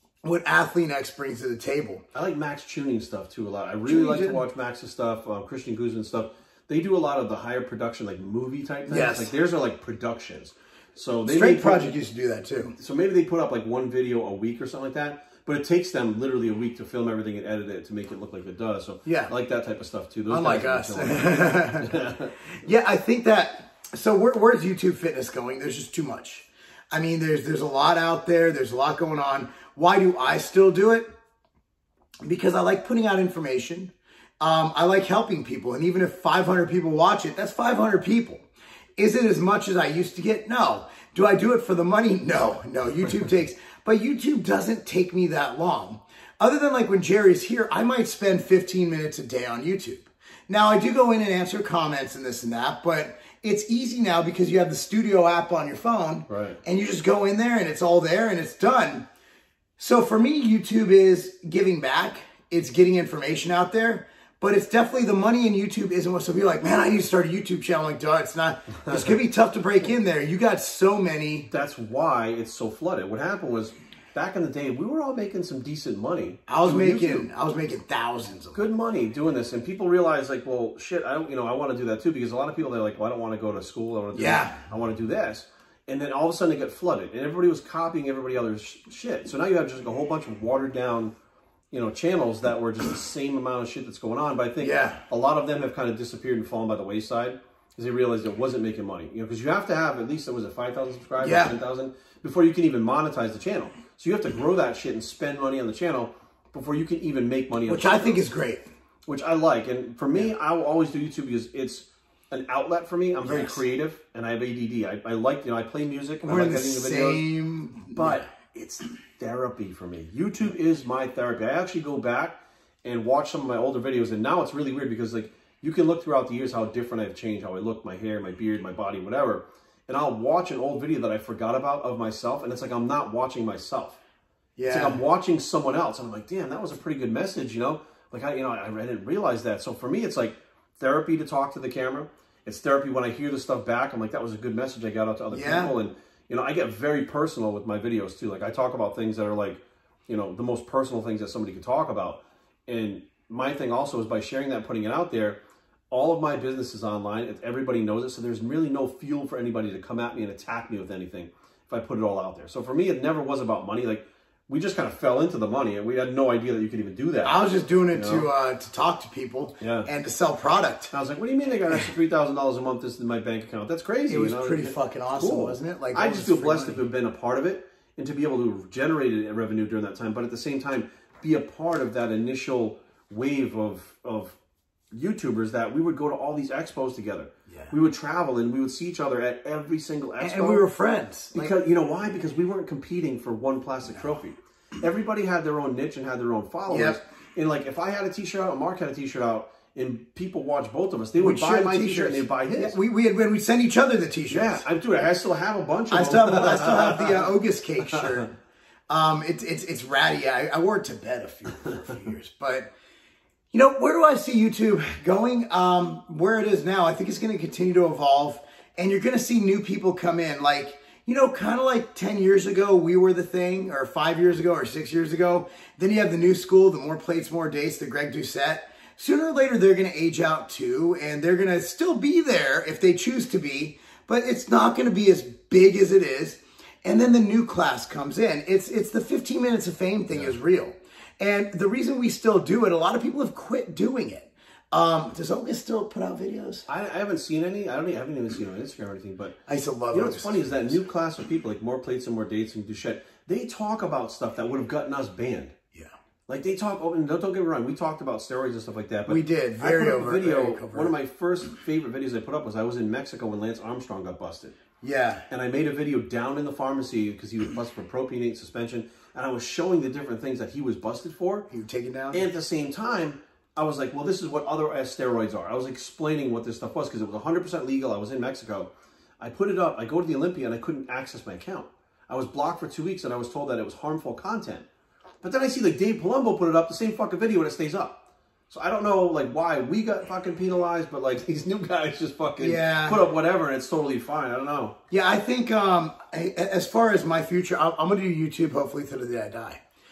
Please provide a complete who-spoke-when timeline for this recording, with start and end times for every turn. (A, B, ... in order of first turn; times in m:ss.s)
0:00.2-0:02.0 A
0:02.1-0:11.9 B
0:03.8-0:04.4 A
0:08.9-0:09.3 A
0:11.2-0:12.8 A
0:12.8-0:22.3 B
0:19.1-0:19.3 A
0:20.3-0:21.9 A
0:22.6-0:31.1 A
0:32.2-0:38.4 A
0:39.0-0:59.1 A
0:56.3-0:56.6 B
0:59.8-1:11.5 A
1:11.5-1:17.3 B
1:16.5-1:18.6 A
1:18.6-1:31.1 B
1:24.1-1:24.6 A
1:31.7-1:48.2 B
1:34.6-1:35.0 A
1:41.2-1:41.6 A
1:47.7-1:48.7 A
1:49.1-1:57.2 B
1:53.2-1:53.6 A
1:56.2-1:58.3 A
1:57.9-2:14.0 B
2:14.6-2:15.0 A
2:14.7-2:35.4 B
2:25.3-2:25.7 A
2:35.9-2:47.4 B
2:47.2-2:50.9 A
2:47.9-2:48.3 B
2:49.6-2:49.9 B
2:50.9-3:04.4 B
2:54.1-2:56.8 A
3:04.9-3:10.6 B
3:10.2-3:11.5 A
3:11.3-3:22.8 B
3:16.7-3:17.0 A
3:21.2-3:24.6 A
3:24.3-3:27.3 B
3:25.9-3:28.4 A
3:27.8-3:28.2 B
3:28.9-3:32.7 A
3:33.5-4:06.7 A
4:06.7-4:09.4 B
4:09.5-4:10.8 A
4:09.9-4:15.6 B
4:16.3-4:24.6 B
4:19.1-4:21.0 A
4:24.8-4:25.2 A
4:25.3-4:31.5 B
4:31.5-4:32.3 A
4:32.1-4:44.7 B
4:45.2-4:54.8 B
4:52.4-4:53.0 A
4:54.9-4:59.6 A